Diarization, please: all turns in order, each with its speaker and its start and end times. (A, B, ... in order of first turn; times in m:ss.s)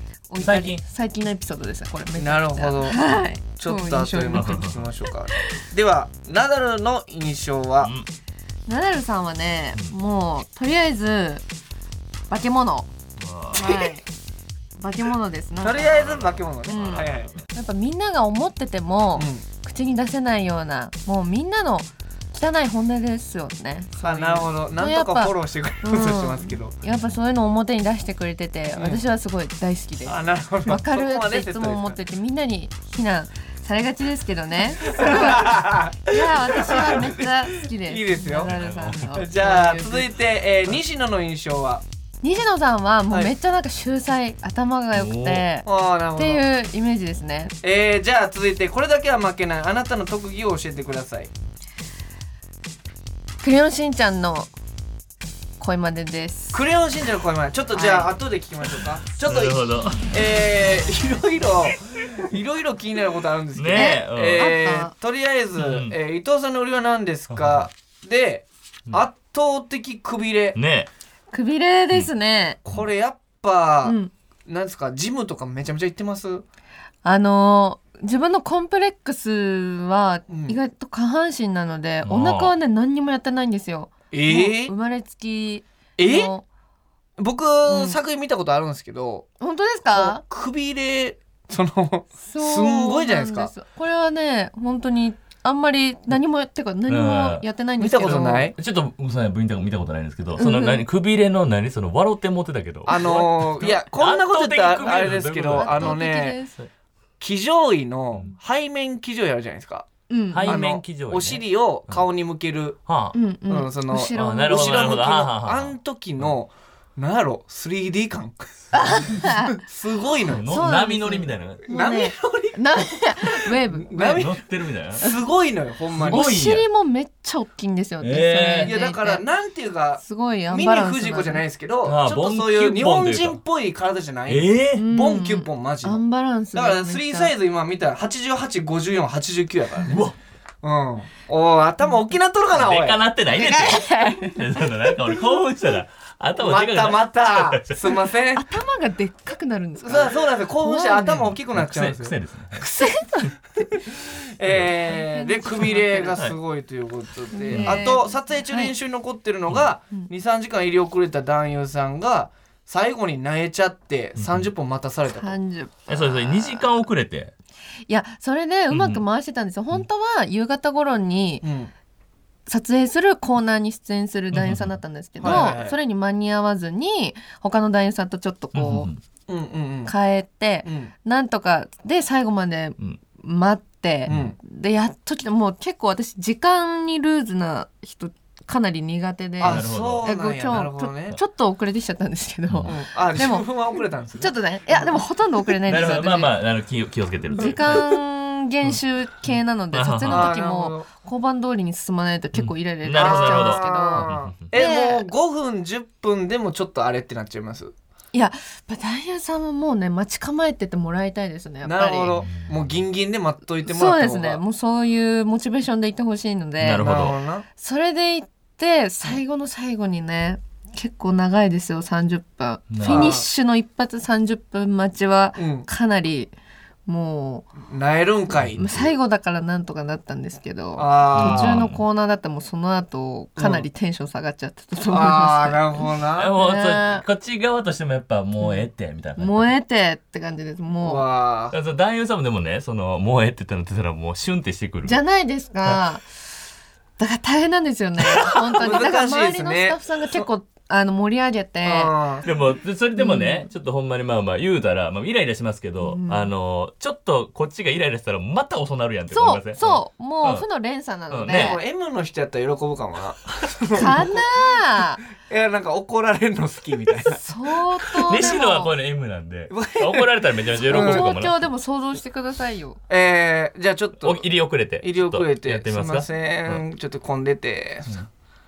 0:00.3-0:04.6 A
0:00.4-0:00.8 B
0:02.2-0:07.9 C
0:04.3-0:04.8 B
0:07.8-0:08.1 B
0:08.7-0:11.4 A
0:12.3-0:12.9 A
0:13.2-0:13.8 B
0:13.5-0:14.0 A
0:14.8-0:16.0 A
0:15.6-0:17.3 C
0:15.8-0:17.5 B
0:16.7-0:40.1 A
0:19.2-0:19.4 C
0:24.0-0:26.7 C
0:28.8-0:29.0 C
0:30.0-0:32.0 C
0:34.9-0:37.2 C
0:37.8-0:41.8 C
0:38.4-0:39.2 B
0:42.2-0:47.5 A
0:44.9-0:45.4 B
0:45.6-0:46.4 C
0:47.6-0:51.3 C
0:53.4-0:54.5 A
0:55.6-0:56.6 A
0:56.5-1:10.6 C
0:57.7-0:58.1 A
0:59.2-1:00.1 B
1:03.5-1:04.6 B
1:03.7-1:04.9 A
1:05.6-1:06.0 B
1:07.3-1:07.7 B
1:10.5-1:10.9 B
1:11.3-1:12.6 A
1:12.7-1:16.4 C
1:13.8-1:14.1 A
1:17.0-1:26.4 A
1:20.3-1:20.6 C
1:22.0-1:22.5 B
1:24.1-1:24.7 C
1:26.0-1:26.3 C
1:27.2-1:29.3 C
1:27.6-1:28.0 A
1:29.4-1:30.2 A
1:29.9-1:33.5 C
1:32.2-1:38.5 A
1:36.9-1:37.4 B
1:37.8-1:38.6 C
1:38.5-1:46.0 B
1:40.4-1:40.8 A
1:42.9-1:46.4 C
1:45.5-1:46.6 A
1:47.2-1:49.9 C
1:50.1-1:50.6 A
1:50.3-1:52.0 B
1:50.4-1:52.8 C
1:52.9-1:53.2 B
1:53.1-1:55.0 A
1:53.5-1:58.5 C
1:54.1-1:56.4 B
1:58.7-1:59.6 A
1:59.0-2:00.7 C
2:00.2-2:01.7 B
2:00.5-2:04.2 A
2:01.7-2:02.7 C
2:03.2-2:04.4 C
2:04.0-2:05.0 B
2:05.0-2:06.4 C
2:05.9-2:06.6 B
2:06.1-2:09.2 A
2:08.0-2:08.8 B
2:08.6-2:16.0 C
2:10.0-2:11.4 A
2:11.8-2:13.4 B
2:14.3-2:14.8 B
2:14.8-2:17.3 A
2:16.5-2:20.0 C
2:19.9-2:20.2 B
2:20.6-2:23.0 C
2:22.5-2:27.8 B
2:23.3-2:24.4 A
2:26.4-2:28.4 C
2:28.3-2:31.3 A
2:29.8-2:32.1 C
2:31.5-2:32.6 B
2:32.6-2:33.3 A
2:33.8-2:45.4 C
2:34.9-2:36.2 A
2:37.3-2:38.7 A
2:37.5-2:38.0 B
2:44.2-2:44.5 B
2:45.1-2:46.8 A
2:45.9-2:47.3 B
2:47.9-2:51.4 A
2:48.7-2:49.0 B
2:51.4-2:51.7 C
2:52.5-2:58.9 A
2:54.3-2:55.6 B
2:55.2-2:55.8 C
2:58.5-2:59.0 B
2:59.3-2:59.9 C
2:59.8-3:13.5 A
3:00.6-3:00.9 C
3:04.1-3:04.3 B
3:04.1-3:04.4 C
3:09.4-3:11.2 C
3:09.4-3:10.1 B
3:12.5-3:12.7 B
3:12.6-3:15.0 C
3:14.2-3:16.3 A
3:15.6-3:17.9 B
3:17.3-3:25.1 A
3:18.6-3:20.3 B
3:20.1-3:20.9 C
3:22.3-3:24.4 B
3:22.9-3:27.7 C
3:28.1-3:32.2 A
3:31.6-3:34.4 C
3:32.1-3:32.8 B
3:33.6-3:37.0 A
3:36.6-3:37.2 B
3:36.8-3:37.4 C
3:37.5-3:46.3 A
3:42.7-3:43.2 B
3:42.8-3:43.2 C
3:45.4-3:45.6 C
3:46.8-3:47.5 A
3:47.6-3:48.9 C
3:48.6-3:57.0 A
3:50.8-3:51.6 C
3:51.1-3:51.8 B
3:53.4-3:53.7 C
3:54.9-3:56.3 C
3:56.1-3:59.5 B
3:58.4-4:01.0 A
4:00.8-4:01.6 C
4:01.5-4:05.0 B
4:04.8-4:06.1 A
4:07.0-4:11.9 A
4:08.0-4:08.6 B
4:08.6-4:10.2 C
4:11.6-4:12.3 C
4:12.2-4:20.4 B
4:13.0-4:13.5 A
4:15.8-4:16.3 A
4:19.1-4:21.6 A
4:21.1-4:21.6 B
4:21.3-4:24.2 C
4:23.7-4:25.0 A
4:25.2-4:27.2 C
4:27.1-4:28.7 A
4:27.9-4:31.5 B
4:29.5-4:31.1 C
4:30.7-4:32.8 A
4:32.9-4:34.2 C
4:34.0-4:36.6 B
4:34.8-4:38.0 C